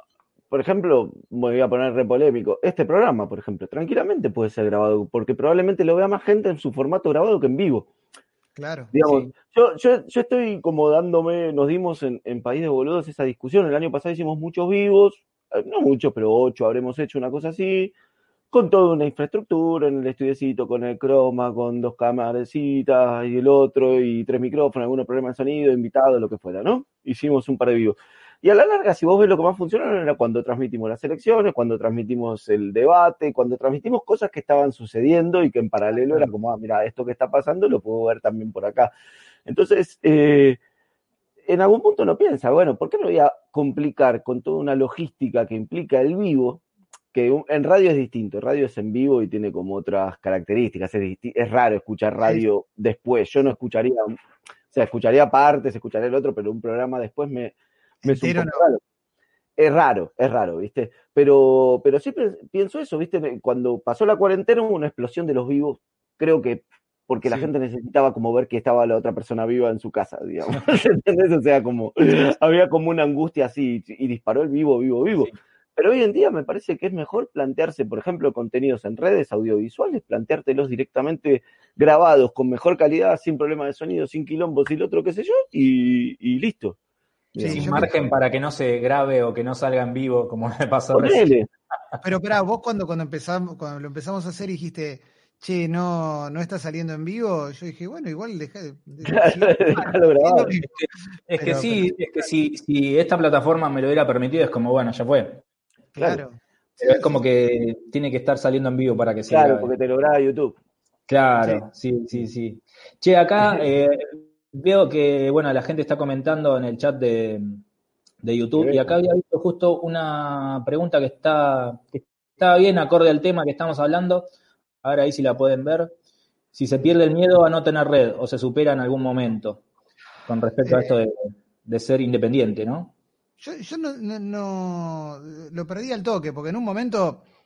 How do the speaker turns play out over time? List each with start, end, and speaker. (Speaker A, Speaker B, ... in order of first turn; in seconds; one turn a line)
Speaker A: 0.5-7.9
Speaker B: 8.6-8.9
Speaker A: 8.9-17.9
Speaker C: 9.0-9.3
Speaker A: 18.5-38.9
Speaker A: 39.5-40.6
Speaker A: 41.5-54.1
Speaker A: 54.7-58.8
Speaker B: 58.0-58.7
Speaker A: 59.6-86.8
Speaker A: 87.3-87.9
Speaker B: 87.4-88.1
Speaker C: 87.4-91.3
Speaker A: 90.9-91.5
Speaker B: 92.0-100.8
Speaker A: 99.0-100.6
Speaker C: 100.8-105.4
Speaker B: 101.4-101.9
Speaker B: 105.9-107.2
Speaker C: 106.8-109.7
Speaker A: 109.3-110.6
Speaker C: 111.1-117.6
Speaker C: 118.2-124.3
Speaker A: 118.6-119.0
Speaker C: 124.8-125.9
Speaker C: 126.5-129.6
Speaker C: 130.3-132.9
Speaker B: 130.6-130.9
Speaker B: 133.4-137.3